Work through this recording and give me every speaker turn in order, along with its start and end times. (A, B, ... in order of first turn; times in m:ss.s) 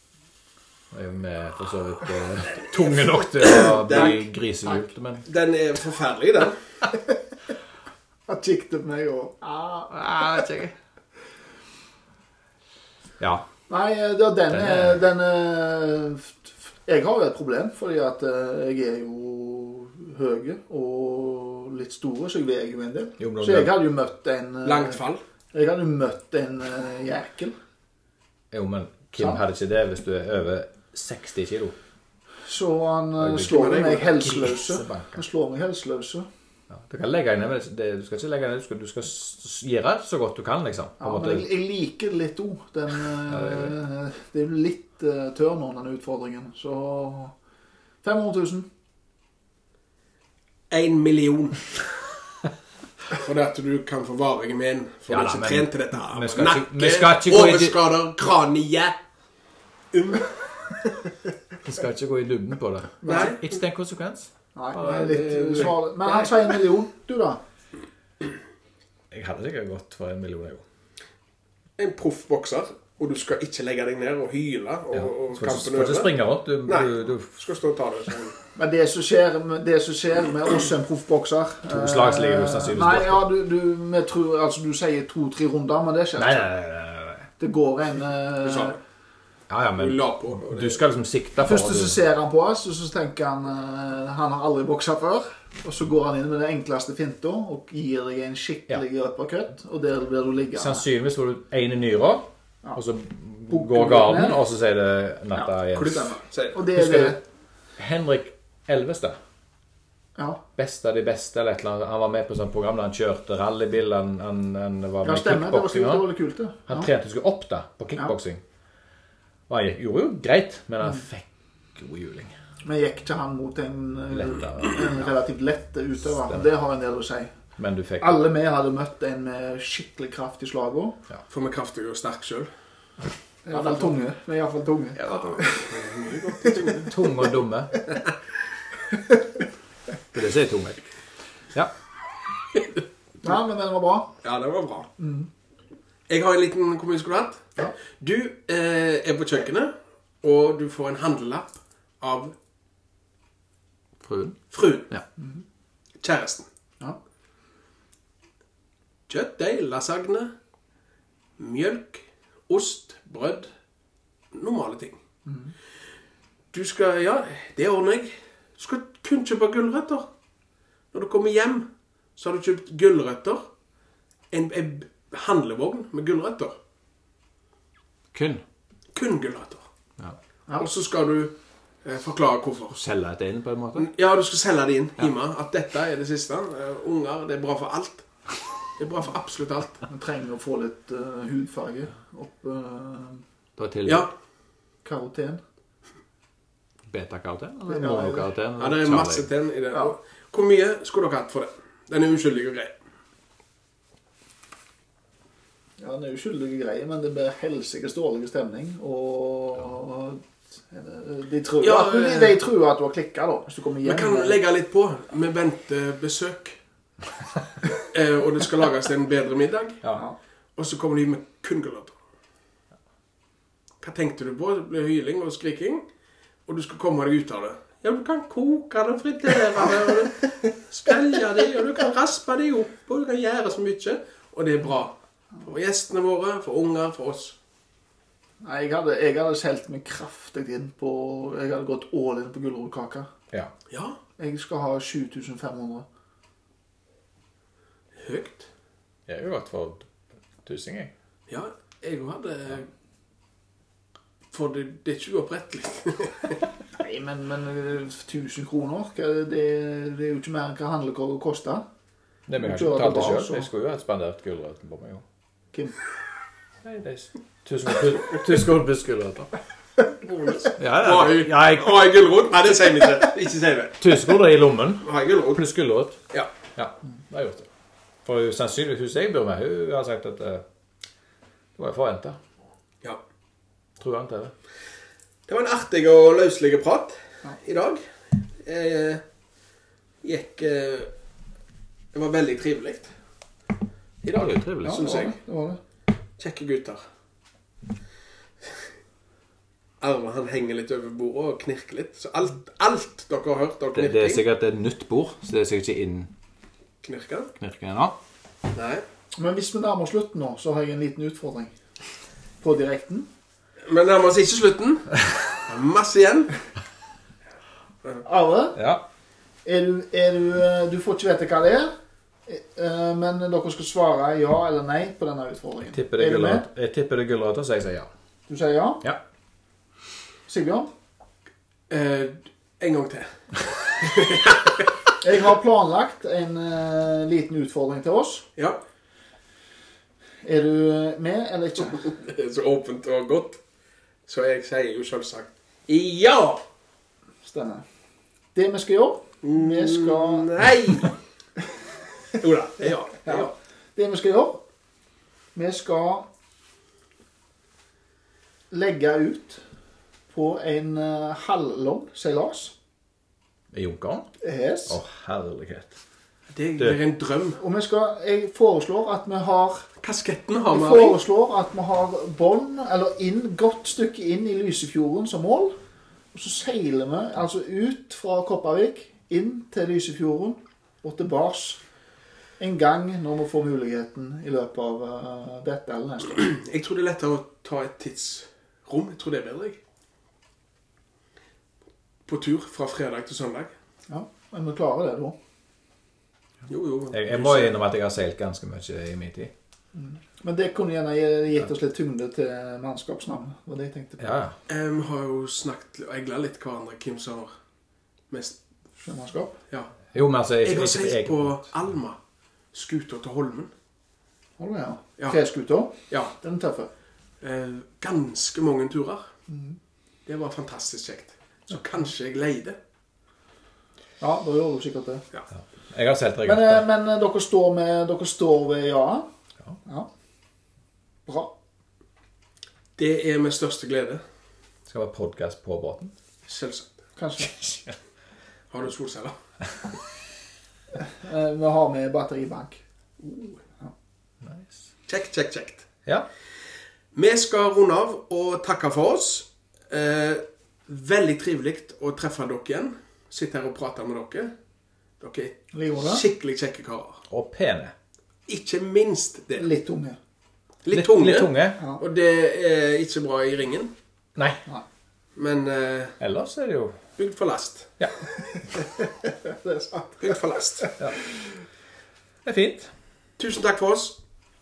0:00.9-0:05.2 A
0:03.4-0:04.2 B
0:05.2-0:06.6 B
0:08.3-0:10.5 C
0:09.9-0:10.7 A
0:13.2-0:13.5 A
0:13.7-0:25.0 C
0:14.5-0:15.0 A
0:23.2-0:23.8 A
0:24.6-0:25.2 B
0:25.5-0:27.6 C
0:28.5-0:31.8 A
0:32.5-0:36.3 C
0:33.2-0:35.2 A
0:33.5-0:34.4 B
0:36.7-0:41.5 A
0:41.0-0:47.3 C
0:43.3-0:43.7 A
0:48.0-0:48.7 C
0:50.7-0:51.7 B
0:53.1-0:59.0 B
0:55.1-0:57.8 A
0:59.9-1:00.4 B
1:01.6-1:04.3 A
1:03.0-1:03.3 C
1:03.0-1:03.5 B
1:04.6-1:07.4 C
1:04.8-1:06.4 B
1:09.1-1:10.6 A
1:11.8-1:16.2 B
1:14.9-1:17.3 A
1:16.7-1:18.4 B
1:18.6-1:26.5 C
1:21.7-1:23.2 A
1:26.2-1:27.3 A
1:27.4-1:28.8 C
1:28.4-1:28.8 B
1:29.5-1:32.0 A
1:29.8-1:30.8 B
1:31.4-1:40.8 C
1:40.6-1:46.1 A
1:43.5-1:44.4 C
1:45.3-1:47.2 C
1:45.7-1:46.6 B
1:46.7-1:47.2 A
1:47.8-1:49.2 A
1:50.2-1:50.4 C
1:50.6-1:56.1 A
1:55.0-1:56.9 C
1:56.7-1:58.4 A
1:59.5-2:02.3 A
2:02.6-2:07.3 C
2:04.1-2:05.1 A
2:07.6-2:08.2 A
2:08.0-2:11.0 C
2:11.3-2:12.5 B
2:13.5-2:16.9 C
2:13.5-2:14.0 B
2:15.0-2:17.0 B
2:16.9-2:17.9 A
2:20.1-2:20.8 A
2:23.2-2:24.1 C
2:24.2-2:24.9 B
2:25.0-2:25.3 C
2:26.1-2:32.3 B
2:34.0-2:35.0 A
2:34.5-2:34.9 B
2:36.0-2:36.5 B
2:39.1-2:40.3 B
2:41.4-2:43.5 B
2:44.3-2:45.0 B
2:46.5-2:50.1 B
2:50.9-2:53.5 B
2:54.3-2:56.6 B
2:58.1-2:58.4 A
2:58.9-2:59.7 B
3:00.6-3:02.8 B
3:02.8-3:03.9 A
3:03.8-3:08.1 B
3:08.8-3:09.8 B
3:09.9-3:13.2 C
3:13.6-3:14.1 A
3:13.9-3:14.1 B
3:14.8-3:15.4 C
3:16.9-3:19.3 A
3:17.7-3:18.3 C
3:18.6-3:22.7 B
3:25.8-3:34.4 C
3:31.6-3:32.4 B
3:33.8-3:36.6 B
3:37.8-3:39.8 B
3:40.6-3:42.0 B
3:43.8-3:45.8 B
3:46.5-3:57.4 B
3:58.4-4:03.1 C
4:03.7-4:04.0 B
4:04.2-4:05.9 C
4:08.0-4:08.5 B
4:09.1-4:09.9 A
4:10.4-4:10.9 A
4:11.3-4:12.7 B
4:14.3-4:16.4 B
4:16.8-4:21.6 C
4:22.3-4:25.0 A
4:22.4-4:23.5 C
4:26.6-4:29.3 A
4:30.0-4:34.0 B
4:30.6-4:31.8 A
4:33.8-4:36.0 A
4:34.8-4:35.5 B
4:36.6-4:37.5 A
4:38.0-4:40.4 A
4:41.6-4:42.2 A
4:43.8-4:44.3 A
4:45.3-4:49.0 B
4:50.0-4:50.9 B
4:51.9-4:52.9 B
4:54.0-4:55.2 B
4:54.1-4:55.0 A
4:54.6-4:55.6 C
4:56.2-4:56.8 B
4:59.8-5:04.2 B
5:03.7-5:06.1 A
5:06.8-5:07.3 B
5:07.4-5:08.0 A
5:08.5-5:08.8 B
5:09.2-5:11.5 C
5:12.4-5:13.1 C
5:13.7-5:16.4 B
5:18.0-5:18.6 C
5:18.6-5:18.8 A
5:19.4-5:21.7 C
5:22.3-5:26.4 C
5:25.7-5:27.9 A
5:28.3-5:28.8 C
5:30.3-5:30.7 C
5:31.7-5:33.1 B
5:33.7-5:34.6 B
5:35.0-5:38.3 C
5:40.2-5:41.9 C
5:41.7-5:43.4 B
5:44.1-5:46.4 B
5:47.2-5:47.6 C
5:48.4-5:50.3 C
5:49.2-5:51.0 B
5:52.2-5:53.3 B
5:53.0-5:54.4 C
5:55.4-5:56.1 C
5:58.5-5:59.4 C
6:00.1-6:02.5 C
6:03.5-6:04.1 A
6:04.2-6:04.8 C
6:04.7-6:05.8 A
6:06.3-6:07.4 B
6:07.4-6:09.7 C
6:09.8-6:11.0 B
6:10.5-6:15.6 C
6:16.1-6:21.6 C
6:22.4-6:26.2 C
6:26.1-6:29.6 B
6:32.1-6:33.5 B
6:33.9-6:35.2 C
6:36.5-6:37.6 B
6:36.9-6:39.3 A
6:39.7-6:44.2 C
6:44.0-6:44.4 A
6:44.5-6:47.3 B
6:48.1-6:48.4 B
6:48.8-6:49.4 C
6:49.5-6:49.8 B
6:49.9-6:51.4 A
6:50.4-6:52.0 B
6:52.5-6:53.5 B
6:54.4-6:56.7 C
6:57.2-6:59.1 B
6:59.3-6:59.6 C
7:00.1-7:02.6 B
7:04.0-7:05.0 C
7:05.4-7:06.6 A
7:06.2-7:09.1 C
7:11.1-7:11.3 C
7:12.8-7:14.0 B
7:14.7-7:15.9 A
7:16.3-7:16.7 B
7:17.0-7:17.5 C
7:18.5-7:19.2 B
7:20.8-7:22.6 C
7:23.0-7:23.4 B
7:24.2-7:24.6 A
7:24.9-7:25.7 B
7:26.9-7:34.3 B
7:35.0-7:37.0 B
7:35.5-7:36.0 C
7:37.1-7:37.7 A
7:38.3-7:39.5 B
7:39.4-7:40.0 C
7:40.6-7:43.7 B
7:40.7-7:41.6 A
7:44.2-7:44.4 A
7:45.2-7:46.0 B
7:46.0-7:46.8 A
7:47.0-7:47.7 B
7:48.4-7:50.7 C
7:50.0-7:50.7 B
7:52.2-7:52.7 A
7:53.2-7:54.0 B